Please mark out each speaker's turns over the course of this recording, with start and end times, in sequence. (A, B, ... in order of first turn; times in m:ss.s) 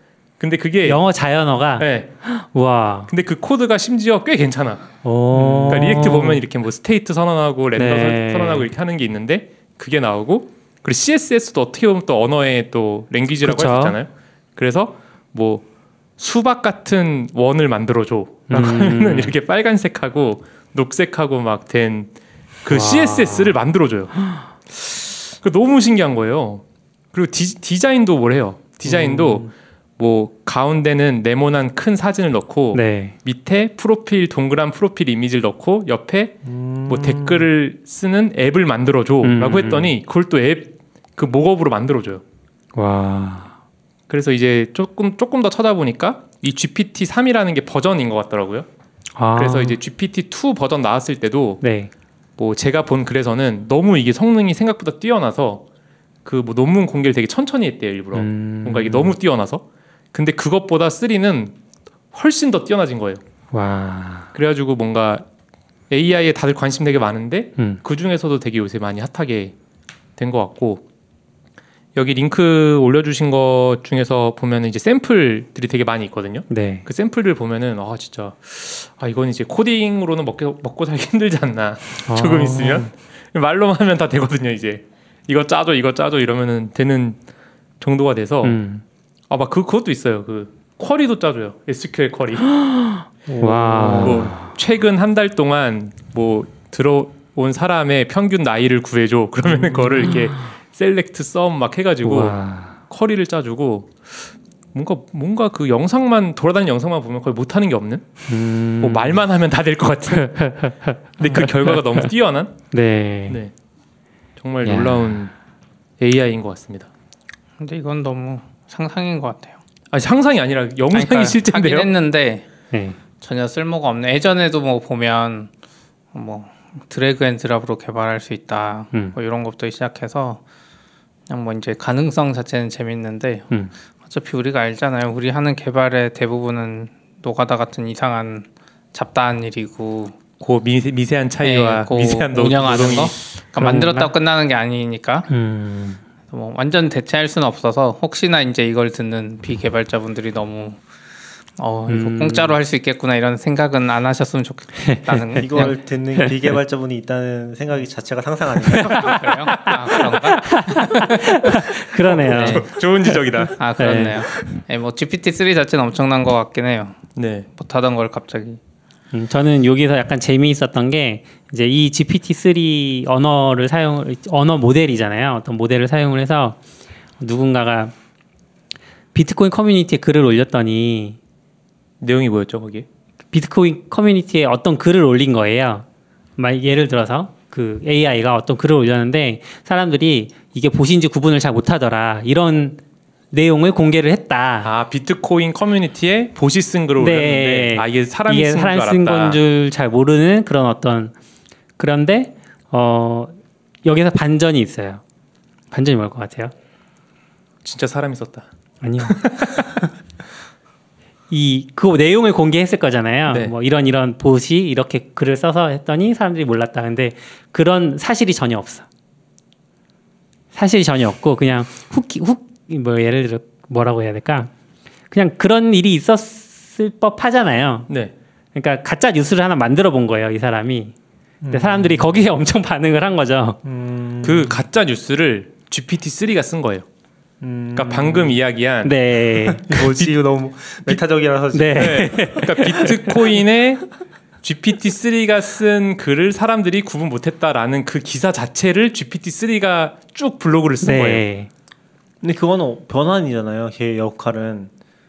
0:00.4-0:01.0 A
0:00.8-0:03.1 B
0:01.8-0:02.1 A
0:03.1-0:04.9 A
0:05.0-0:06.4 B
0:05.4-0:05.9 C
0:05.7-0:15.6 A
0:07.8-0:08.7 B
0:13.4-0:14.0 B
0:16.2-0:22.1 A
0:18.5-0:19.4 B
0:22.6-0:24.2 A
0:22.7-0:23.6 B
0:24.8-0:42.2 A
0:28.8-0:29.5 C
0:32.7-0:33.2 B
0:36.4-0:37.5 C
0:39.2-0:39.9 B
0:42.8-0:43.6 B
0:44.1-0:48.7 A
0:49.2-0:49.8 B
0:49.4-0:51.6 A
0:51.6-0:51.9 B
0:52.4-0:55.6 A
0:56.2-1:01.5 A
0:58.1-0:59.2 B
1:02.1-1:03.2 A
1:03.5-1:04.3 B
1:04.3-1:05.2 A
1:05.9-1:09.6 A
1:10.2-1:10.8 A
1:12.0-1:27.2 A
1:16.5-1:16.8 B
1:22.1-1:22.9 B
1:27.8-1:28.6 A
1:28.4-1:28.8 B
1:29.3-1:32.5 A
1:32.6-1:34.5 B
1:33.3-1:34.3 C
1:33.8-1:42.4 A
1:42.0-1:42.8 B
1:42.9-1:44.2 A
1:44.7-1:48.2 A
1:48.3-1:49.2 B
1:48.8-1:50.4 A
1:50.1-1:52.1 B
1:51.2-1:52.6 A
1:52.7-1:53.4 B
1:54.4-1:55.3 A
1:54.6-1:55.3 B
1:56.0-1:56.9 A
1:57.6-1:59.6 D
1:59.9-2:01.9 A
2:00.9-2:02.5 D
2:02.7-2:03.0 B
2:03.2-2:05.5 D
2:06.1-2:10.4 D
2:11.3-2:13.5 D
2:14.1-2:20.2 D
2:20.4-2:23.2 A
2:21.4-2:25.3 D
2:23.6-2:24.1 B
2:25.3-2:26.0 B
2:26.3-2:30.8 D
2:31.6-2:35.7 D
2:31.9-2:32.6 B
2:34.8-2:36.4 B
2:35.4-2:39.2 C
2:38.7-2:39.2 B
2:38.8-2:41.2 D
2:39.9-2:43.2 B
2:42.0-2:43.6 A
2:42.2-2:42.6 D
2:43.6-2:47.0 D
2:43.8-2:44.2 B
2:47.2-2:47.5 A
2:47.6-2:48.6 D
2:49.1-2:56.6 B
2:57.2-2:57.9 B
2:59.1-3:01.2 B
3:02.0-3:02.9 A
3:03.3-3:05.8 B
3:06.4-3:12.8 B
3:13.3-3:14.7 B
3:14.6-3:19.4 A
3:17.0-3:21.1 B
3:21.8-3:25.0 B
3:25.7-3:26.5 B
3:27.6-3:28.5 A
3:28.8-3:29.6 B
3:29.0-3:29.7 A
3:31.3-3:38.9 B
3:33.3-3:33.5 A
3:40.5-3:44.5 B
3:45.1-3:47.9 B
3:48.6-3:50.9 B
3:51.4-3:52.1 C
3:51.5-3:53.6 B
3:53.6-3:54.6 C
3:54.2-3:56.8 A
3:57.4-3:58.4 C
3:57.8-3:58.9 A
3:58.8-3:59.9 B
3:59.4-4:02.3 C
4:01.5-4:03.0 B
4:01.7-4:03.9 A
4:04.4-4:11.2 A
4:10.8-4:11.5 B
4:12.2-4:14.7 C